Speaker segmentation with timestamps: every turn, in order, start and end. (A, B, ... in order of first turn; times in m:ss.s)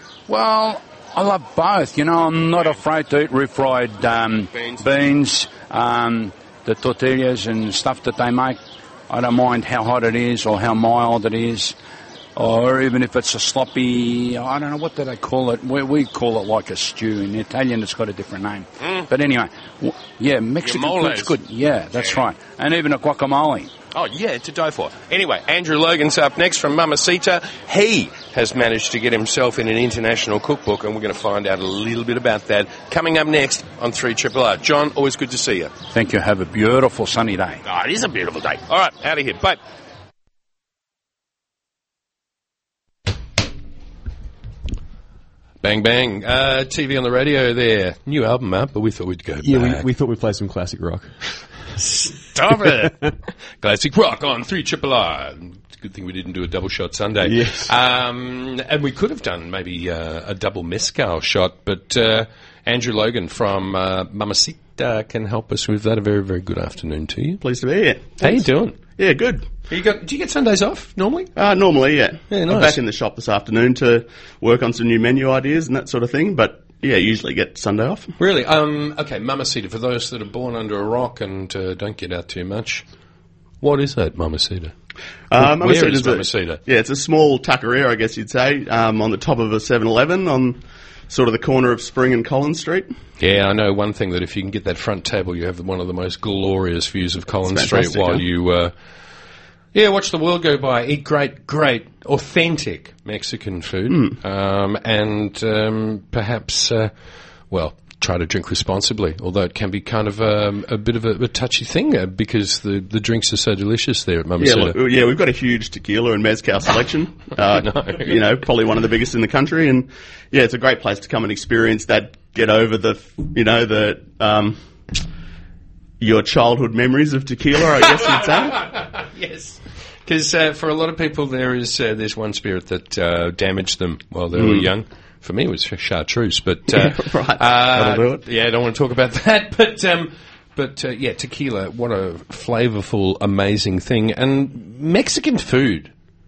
0:00.3-0:11.8 A
0:04.6-0:04.8 B
0:12.4-0:23.7 A
0:20.6-0:21.4 B
0:22.0-0:22.2 B
0:23.9-0:35.7 B
0:35.9-0:37.6 A
0:37.6-0:39.6 B
0:45.6-0:49.8 B
0:49.4-0:51.2 C
0:51.8-1:07.4 B
0:57.2-0:57.7 C
1:07.4-1:09.5 D
1:08.2-1:08.8 B
1:09.7-1:11.3 B
1:11.4-1:18.1 D
1:12.3-1:12.8 B
1:18.2-1:22.8 B
1:23.6-1:24.7 B
1:25.3-1:32.9 D
1:25.4-1:26.6 B
1:33.2-1:38.7 B
1:37.4-1:38.2 D
1:39.7-1:46.9 B
1:43.9-1:44.2 D
1:47.5-1:54.8 B
1:54.4-2:04.6 D
1:57.4-1:58.2 B
2:06.0-2:08.7 D
2:07.8-2:25.9 B
2:14.3-2:14.7 D
2:16.7-2:18.2 D